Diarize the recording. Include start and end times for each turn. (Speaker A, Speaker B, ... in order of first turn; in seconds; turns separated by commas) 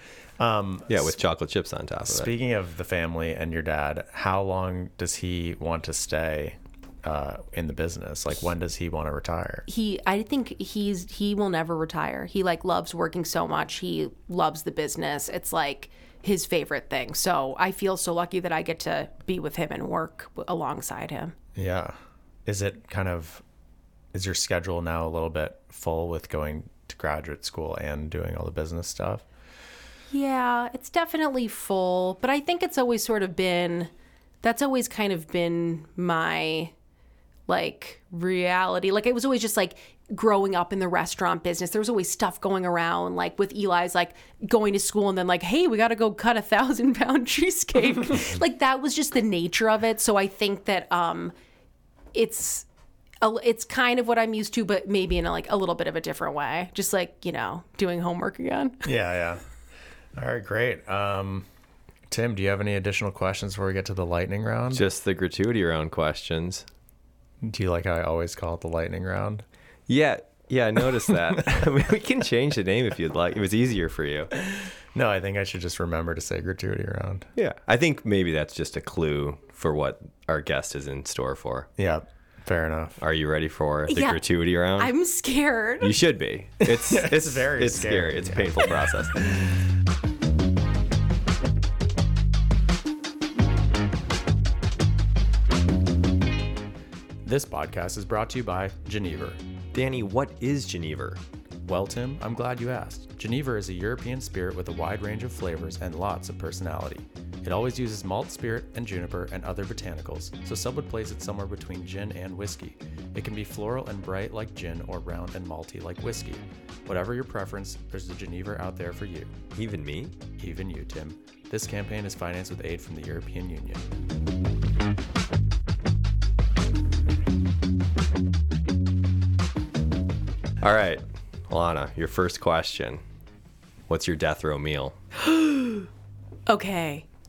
Speaker A: 0.4-1.1, Speaker B: 0.9-2.3, Speaker A: 2.0-9.7, Speaker C: 9.7-21.3, Speaker A: 21.5-23.4, Speaker A: 24.1-29.2, Speaker C: 30.1-33.9, Speaker C: 34.4-36.7, Speaker C: 37.5-51.3, Speaker C: 52.1-52.6, Speaker C: 53.2-58.9, Speaker A: 58.8-59.4, Speaker A: 60.1-61.5, Speaker A: 62.1-64.8, Speaker B: 64.7-66.7, Speaker A: 67.4-69.4, Speaker B: 69.9-74.3, Speaker A: 74.5-77.3, Speaker B: 77.3-81.7, Speaker A: 81.8-83.0, Speaker B: 83.0-84.9, Speaker C: 83.9-84.2, Speaker C: 84.8-86.0, Speaker B: 85.8-89.4, Speaker A: 86.6-88.8, Speaker A: 97.2-99.4, Speaker B: 99.7-101.2, Speaker A: 101.7-119.3, Speaker B: 119.5-120.2, Speaker A: 120.4-123.8, Speaker B: 130.6-133.0, Speaker B: 133.9-134.9, Speaker C: 135.2-135.9, Speaker C: 136.5-137.1